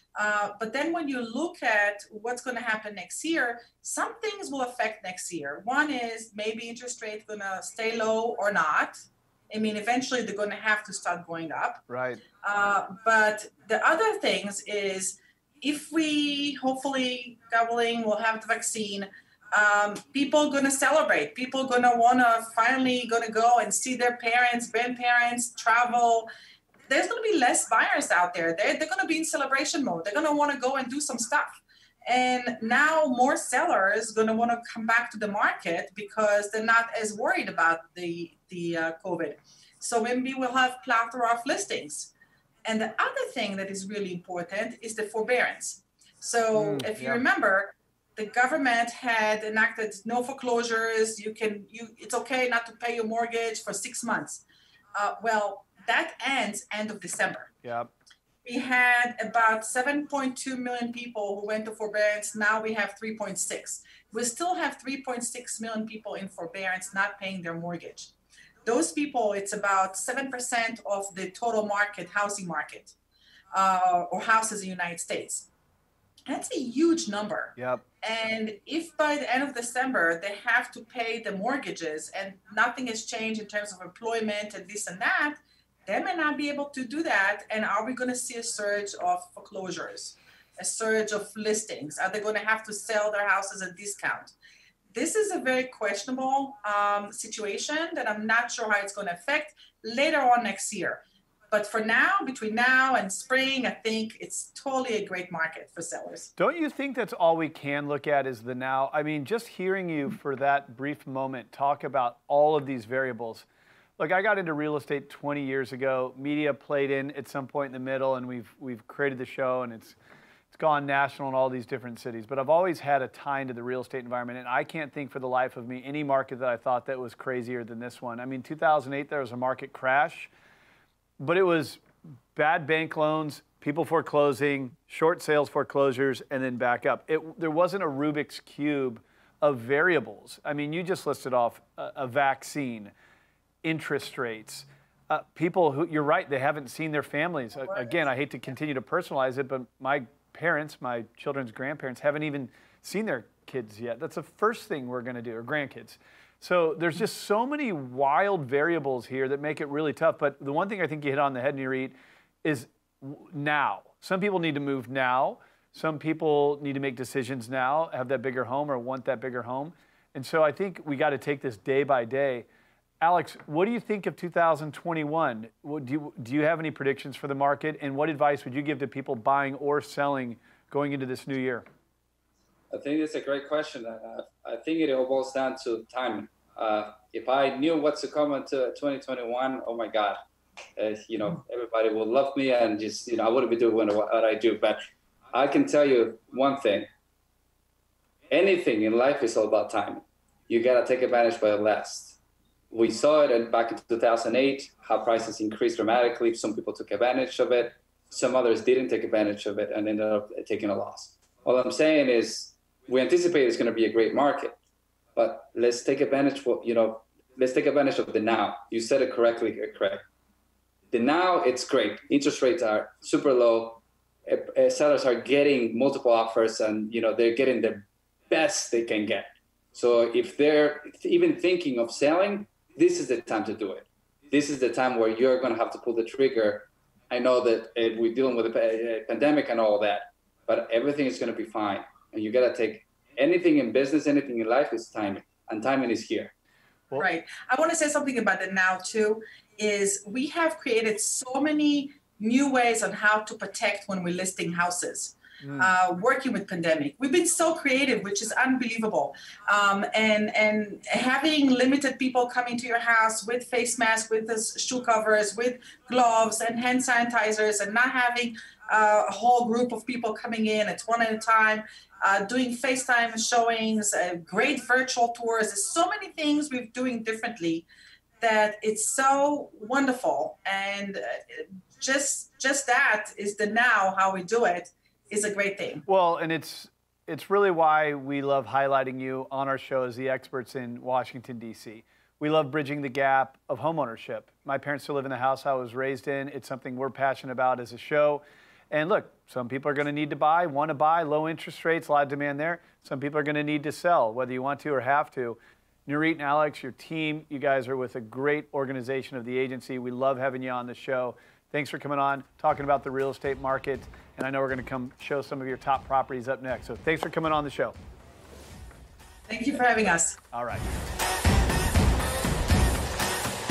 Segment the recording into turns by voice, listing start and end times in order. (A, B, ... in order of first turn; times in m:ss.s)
0:00.2-0:11.8 A
0:11.9-0:12.2 B
0:12.4-0:26.3 A
0:26.9-0:42.1 A
0:42.6-0:54.4 A
0:46.6-0:47.2 B
0:55.0-0:57.5 A
0:57.6-0:57.9 B
0:58.4-1:08.1 A
1:08.6-1:13.0 A
1:13.5-1:15.5 A
1:16.3-1:34.3 A
1:17.6-1:17.8 B
1:34.9-1:46.3 A
1:46.4-1:53.4 B
1:54.0-2:00.0 B
2:00.5-2:10.3 B
2:11.2-2:11.8 B
2:12.3-2:22.9 B
2:23.6-2:52.5 B
2:53.0-3:01.6 B
3:02.7-3:10.2 C
3:10.8-3:14.8 C
3:15.3-3:16.9 C
3:18.3-3:22.2 C
3:22.7-3:34.6 C
3:35.2-3:40.0 C
3:40.9-4:06.3 C
4:07.0-4:37.7 A
4:15.4-4:15.7 B
4:38.2-4:45.8 A
4:45.9-5:17.8 B
5:19.3-5:20.2 A
5:20.3-5:20.6 B